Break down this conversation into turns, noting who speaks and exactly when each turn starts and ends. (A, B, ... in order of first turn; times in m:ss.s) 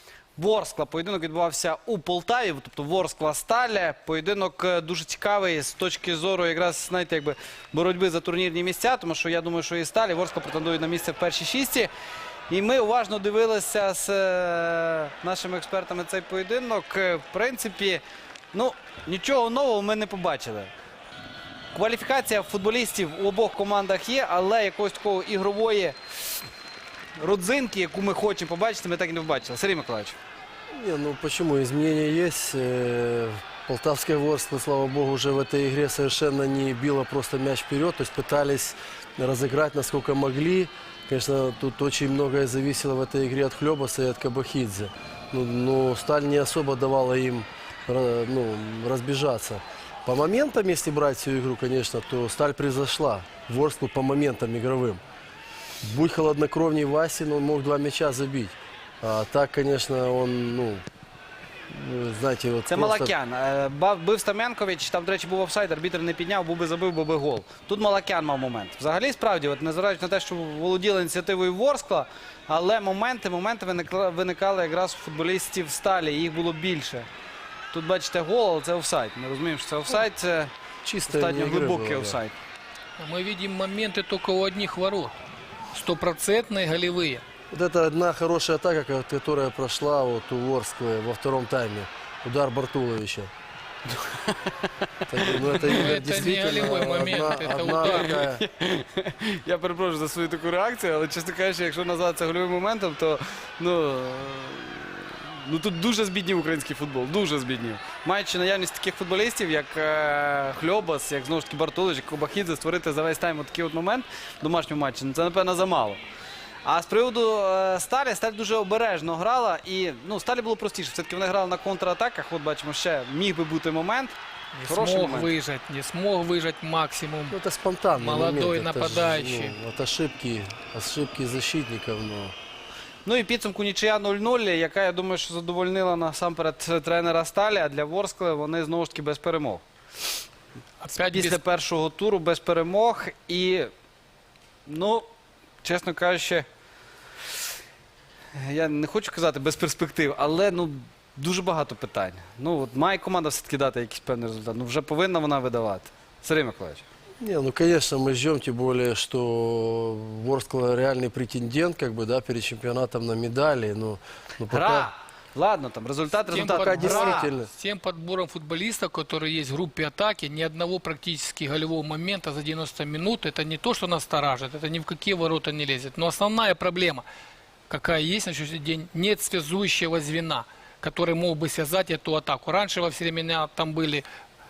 0:00.4-0:11.9 A
0:12.5-0:20.7 A
0:21.7-0:26.0 A
0:27.2-0:30.2 A
0:30.7-0:55.0 B
0:55.8-1:00.8 B
1:01.7-1:03.1 B
1:02.7-1:17.1 A
1:17.7-1:20.5 A
1:20.8-1:22.2 B
1:21.0-1:22.3 A
1:23.0-1:25.1 C
1:25.7-1:27.2 C
1:27.5-1:33.3 B
1:33.9-1:34.5 A
1:35.1-1:38.4 B
1:35.1-1:36.0 A
1:35.5-1:38.2 C
1:37.6-1:56.0 A
1:56.6-2:04.2 A
2:04.5-2:07.4 C
2:04.7-2:05.3 A
2:07.3-2:12.3 B
2:07.9-2:09.6 C
2:13.0-2:19.6 A
2:20.8-2:21.4 C
2:21.0-2:23.7 A
2:24.7-2:25.1 A
2:25.6-2:26.5 A
2:28.4-2:36.9 A
2:37.2-2:44.9 B
2:44.5-2:47.3 A
2:46.3-2:57.0 C
2:46.5-2:47.5 B
2:57.7-3:04.0 C